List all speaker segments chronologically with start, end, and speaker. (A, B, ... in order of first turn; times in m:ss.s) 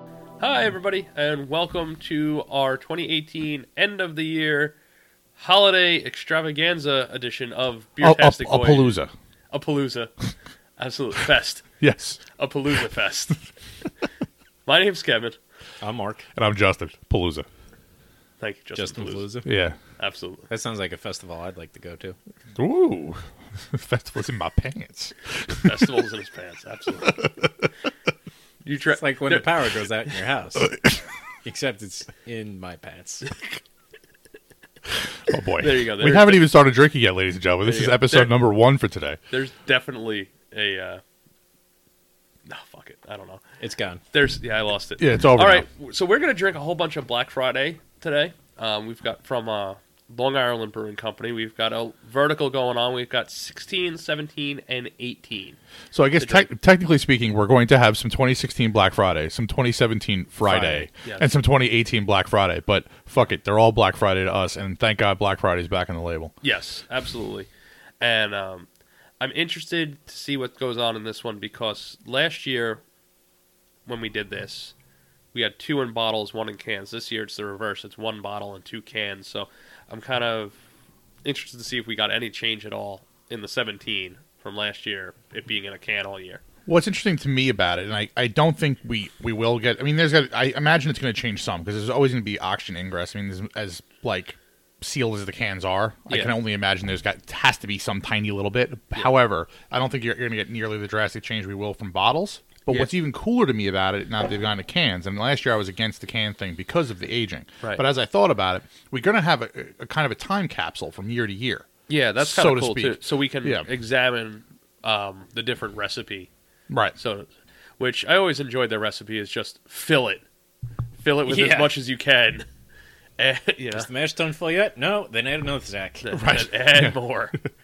0:00.4-0:04.8 A
0:05.4-0:09.0 A
0:08.0-0:09.1 B
0:09.5-0:10.2 A
0:10.8-0:11.7 A
0:11.8-0:12.2 B
0:12.4-0:13.5 A
0:14.7-0:15.4 A
0:15.8-0:16.2 C
0:16.4-0:17.5 B
0:18.4-0:19.3 A
0:18.7-0:19.5 C
0:19.4-0:19.8 B
0:20.0-0:20.5 A
0:20.5-0:22.2 C
0:22.6-0:26.0 B
0:25.6-0:27.2 A
0:27.0-0:27.7 B
0:28.6-0:29.6 A
0:28.9-0:30.8 C
0:30.6-0:31.0 B
0:31.4-0:33.3 C
0:35.3-0:39.2 B
0:35.6-0:36.4 A
0:37.6-0:38.4 A
0:39.3-0:41.0 A
0:42.5-0:43.4 A
0:43.6-0:44.0 C
0:44.1-0:55.6 A
0:45.0-0:45.7 B
0:55.9-1:06.3 B
0:56.2-0:56.5 A
1:00.4-1:01.3 A
1:06.4-1:07.5 A
1:08.0-1:08.7 A
1:09.2-1:12.8 A
1:13.9-1:14.7 A
1:15.3-1:20.6 A
1:21.2-1:26.4 A
1:26.7-1:53.7 B
1:36.1-1:36.4 A
1:51.9-1:56.3 A
1:56.7-1:57.0 B
1:57.0-1:57.3 A
1:57.8-2:00.2 A
2:01.0-2:02.5 A
2:01.3-2:01.7 C
2:03.2-2:03.9 A
2:03.7-2:06.1 C
2:06.0-2:07.4 A
2:06.1-2:07.0 B